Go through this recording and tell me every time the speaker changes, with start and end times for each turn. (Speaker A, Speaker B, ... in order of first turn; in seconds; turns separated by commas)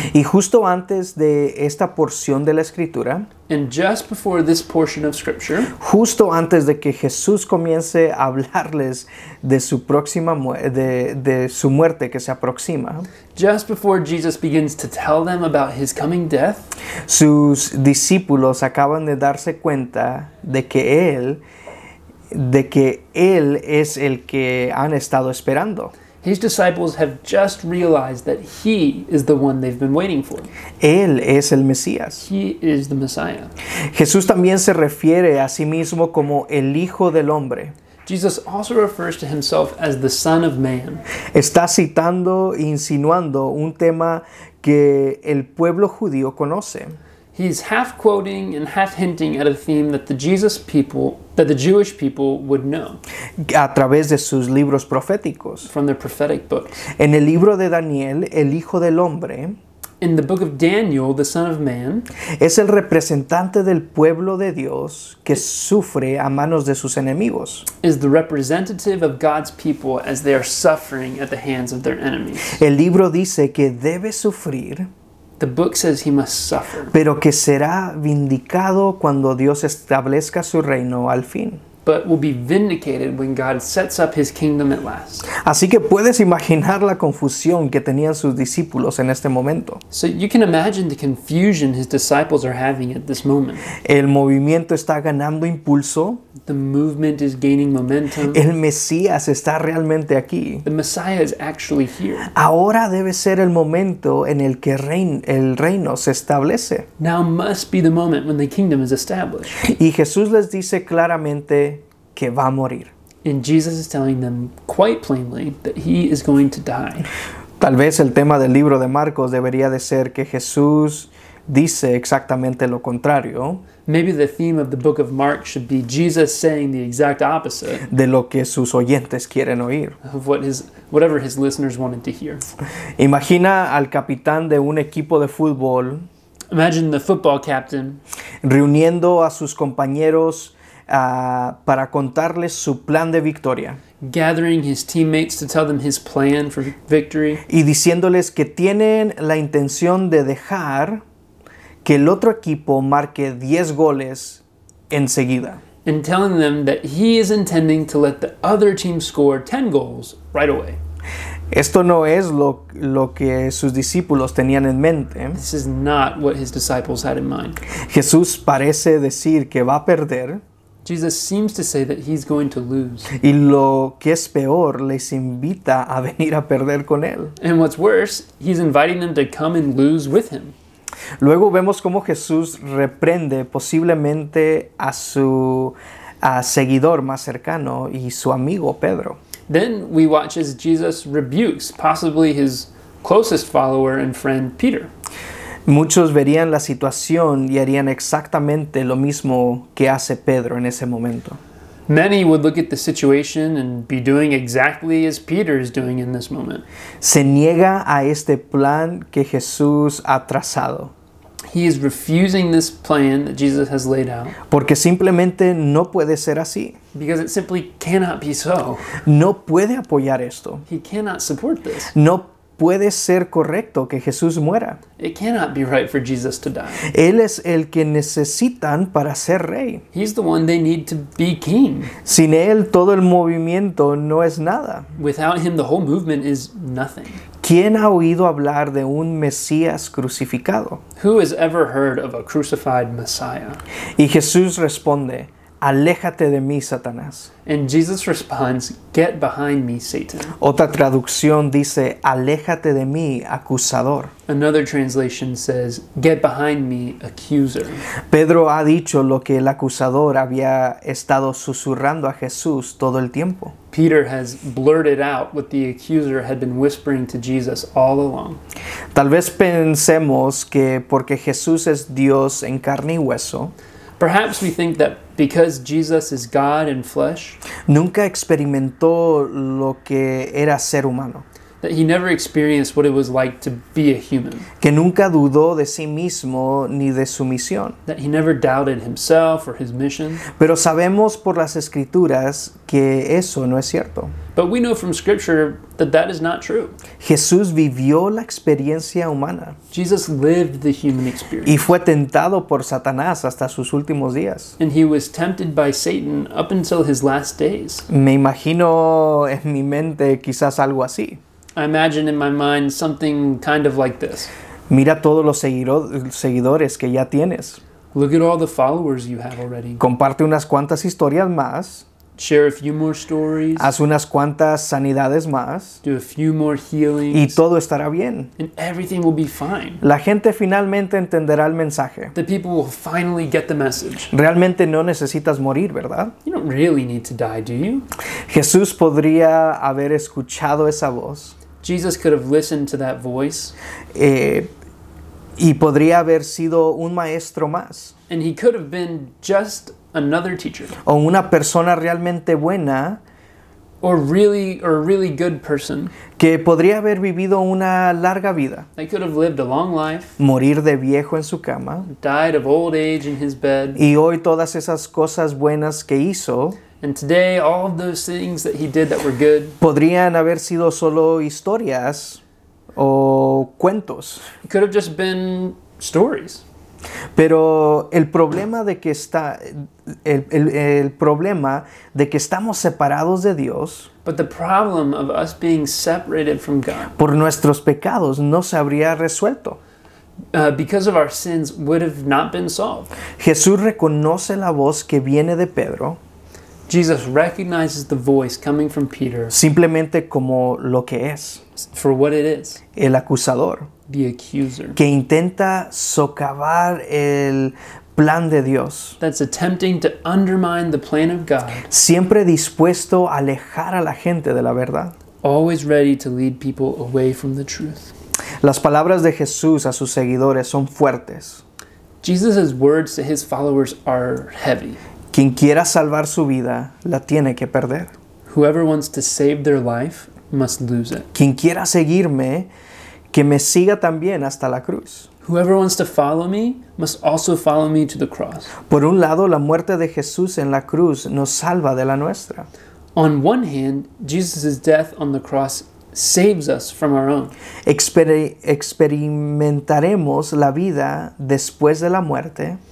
Speaker A: 0.1-3.3, Speaker B: 3.5-5.7, Speaker A: 5.8-13.1, Speaker B: 13.3-16.6, Speaker A: 17.1-21.4, Speaker A: 22.3-25.9, Speaker B: 26.2-30.5, Speaker A: 30.8-32.3, Speaker B: 32.3-33.5, Speaker A: 33.9-37.8, Speaker B: 38.0-41.0, Speaker A: 41.3-47.0, Speaker B: 47.3-53.0, Speaker A: 53.4-55.7, Speaker B: 55.6-56.9, Speaker A: 57.0-59.6, Speaker B: 60.0-62.1, Speaker A: 62.4-67.7, Speaker B: 67.8-72.6, Speaker A: 72.5-74.9, Speaker B: 75.4-76.9, Speaker A: 76.9-81.6, Speaker B: 81.8-85.3, Speaker A: 85.4-89.8, Speaker B: 89.9-93.7, Speaker A: 93.8-96.2, Speaker B: 96.4-98.4, Speaker A: 98.3-100.7, Speaker B: 100.6-102.3, Speaker A: 102.3-106.9, Speaker B: 107.0-109.7, Speaker A: 109.6-112.9, Speaker B: 113.2-117.1, Speaker A: 117.6-123.7, Speaker B: 123.8-127.9, Speaker A: 127.9-130.0, Speaker B: 130.0-132.4, Speaker A: 133.0-136.1, Speaker B: 136.5-138.0, Speaker A: 138.4-143.8, Speaker B: 144.0-147.4, Speaker A: 147.5-151.0, Speaker A: 151.8-155.6, Speaker B: 155.8-160.8, Speaker A: 161.5-165.4, Speaker B: 165.3-167.6, Speaker A: 167.8-170.4, Speaker B: 170.8-173.1, Speaker A: 173.1-177.3, Speaker B: 177.4-180.5, Speaker A: 181.2-189.2, Speaker B: 189.5-194.9, Speaker A: 195.7-201.4, Speaker B: 201.9-206.6, Speaker A: 207.0-210.9, Speaker B: 211.5-214.4, Speaker A: 214.5-216.8, Speaker B: 216.9-218.9, Speaker A: 219.0-220.6, Speaker B: 220.7-221.9, Speaker A: 221.9-224.8, Speaker B: 225.0-226.9, Speaker A: 226.9-229.8, Speaker B: 229.9-232.0, Speaker A: 232.0-234.9, Speaker B: 235.0-237.2, Speaker A: 237.4-240.8, Speaker B: 241.0-243.6, Speaker A: 244.0-247.3, Speaker B: 247.4-250.3, Speaker A: 250.4-254.1, Speaker B: 254.3-257.8, Speaker A: 258.1-263.5, Speaker B: 263.7-268.4, Speaker A: 268.9-273.5, Speaker B: 274.0-277.4, Speaker A: 277.7-281.2, Speaker B: 281.6-284.5, Speaker A: 284.6-287.8, Speaker B: 287.9-290.2, Speaker A: 290.3-294.1, Speaker B: 294.4-296.8, Speaker A: 297.0-299.6, Speaker B: 299.7-301.7, Speaker A: 301.4-304.5, Speaker B: 304.6-307.9, Speaker A: 307.9-311.2, Speaker B: 311.6-314.3, Speaker A: 314.7-317.6, Speaker B: 317.9-319.8, Speaker A: 319.8-321.9, Speaker B: 322.2-323.7, Speaker A: 323.6-325.8, Speaker B: 325.8-327.4, Speaker A: 327.1-328.3, Speaker B: 328.4-329.8, Speaker A: 329.8-332.1, Speaker B: 332.1-334.1, Speaker A: 334.1-336.1, Speaker B: 336.2-337.9, Speaker A: 338.3-341.4, Speaker B: 341.6-343.5, Speaker A: 343.9-344.5, Speaker A: 345.4-347.9, Speaker B: 348.1-350.8, Speaker A: 350.9-353.0, Speaker B: 353.8-355.9, Speaker A: 356.2-358.7, Speaker B: 358.8-360.2, Speaker A: 360.2-361.9, Speaker B: 361.9-363.8, Speaker A: 363.8-366.6, Speaker B: 366.8-369.6, Speaker A: 369.6-372.2, Speaker A: 372.8-374.2, Speaker B: 374.4-376.4, Speaker A: 377.1-383.9, Speaker B: 384.0-386.9, Speaker A: 387.0-389.6, Speaker B: 390.3-392.9, Speaker A: 393.2-396.0, Speaker B: 396.7-399.4, Speaker A: 399.3-401.4, Speaker B: 401.6-402.6, Speaker A: 402.8-403.7, Speaker B: 403.9-404.8, Speaker A: 404.8-409.0, Speaker B: 409.0-411.7, Speaker A: 411.7-414.9, Speaker B: 415.2-417.9, Speaker A: 418.4-421.4, Speaker B: 422.0-424.8, Speaker A: 425.1-427.9, Speaker B: 428.2-431.1, Speaker A: 431.1-432.5, Speaker A: 433.1-435.1, Speaker B: 435.2-438.5, Speaker A: 438.7-442.5, Speaker B: 442.9-447.3, Speaker A: 447.6-452.6